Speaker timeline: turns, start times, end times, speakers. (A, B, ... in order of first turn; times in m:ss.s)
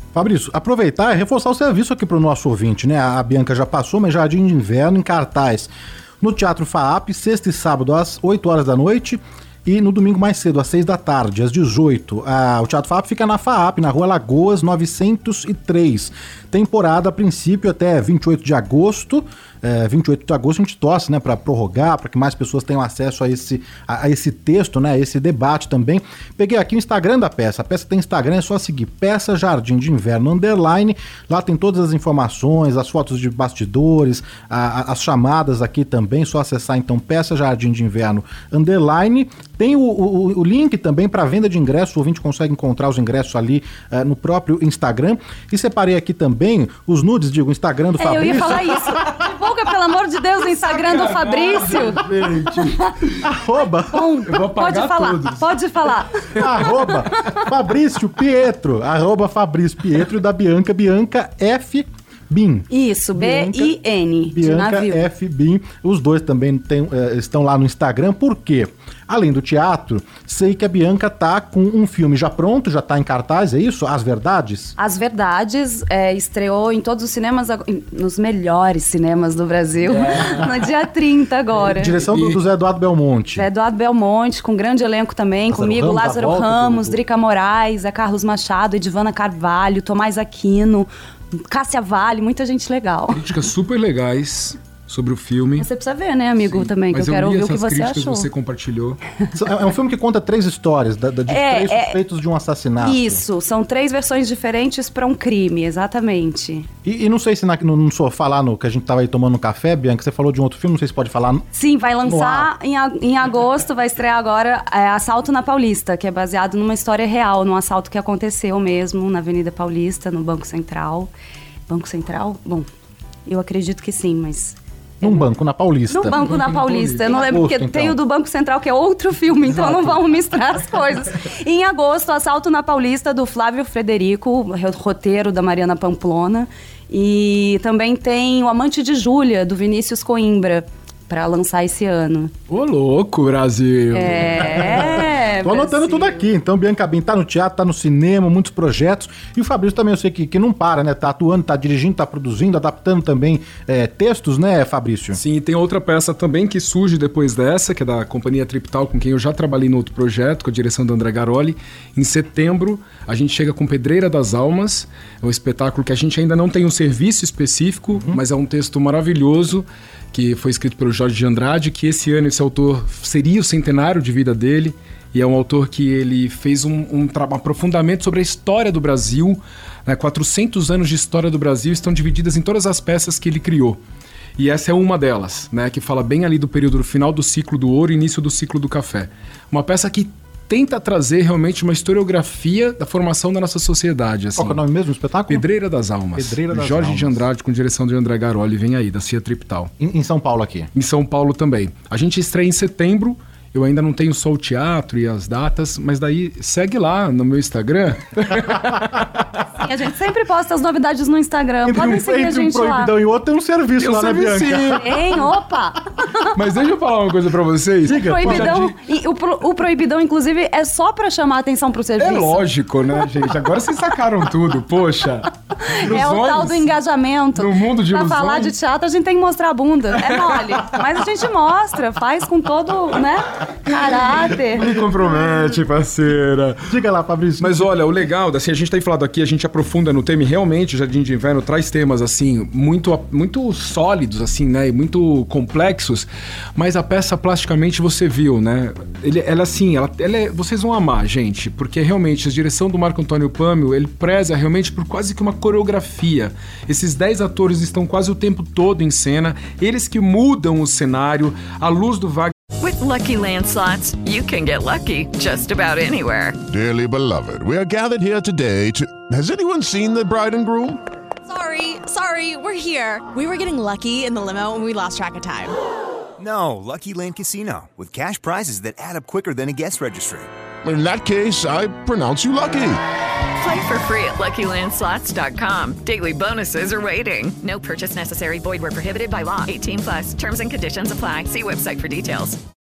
0:00.1-0:49.0 A
0:48.0-0:52.0 B
0:50.7-0:53.2 C
0:53.2-0:54.2 A
0:53.9-0:56.4 B
0:54.3-0:55.5 C
0:56.4-1:03.8 A
1:02.7-1:05.1 B
1:04.3-1:14.8 A
1:14.8-1:21.9 B
1:19.8-1:20.5 C
1:21.6-1:23.5 A
1:22.0-1:22.4 C
1:23.4-1:33.3 B
1:25.5-1:27.0 A
1:33.1-1:35.7 C
1:35.6-1:38.3 B
1:36.4-1:39.0 C
1:39.4-1:43.2 A
1:41.3-1:42.0 B
1:42.8-1:46.7 B
1:46.8-1:51.5 A
1:51.5-2:01.1 B
1:52.0-1:52.5 A
2:01.7-2:02.7 B
2:03.3-2:05.2 B
2:05.0-2:08.0 A
2:05.9-2:22.3 B
2:06.1-2:07.1 C
2:09.5-2:10.0 A
2:22.5-2:24.8 C
2:23.9-2:26.1 B
2:24.5-2:35.2 A
2:35.1-3:03.8 C
3:04.4-3:14.6 C
3:14.4-3:15.5 A
3:15.3-3:19.7 C
3:16.2-3:17.2 A
3:19.8-3:20.7 A
3:20.8-3:29.2 C
3:29.6-3:32.9 B
3:31.7-3:34.8 A
3:33.8-3:35.0 C
3:34.8-3:36.3 B
3:36.3-3:38.7 C
3:37.9-3:38.7 A
3:37.9-3:42.4 B
3:42.0-3:46.7 C
3:45.6-3:54.7 B
3:47.4-3:48.5 C
3:50.0-3:50.5 C
3:54.6-3:56.7 C
3:56.6-3:57.7 A
3:57.4-4:22.3 C
4:22.6-4:26.4 D
4:26.5-4:30.8 E
4:31.3-4:35.6 F
4:36.2-4:40.3 G
4:40.6-4:42.8 E
4:43.4-4:52.4 D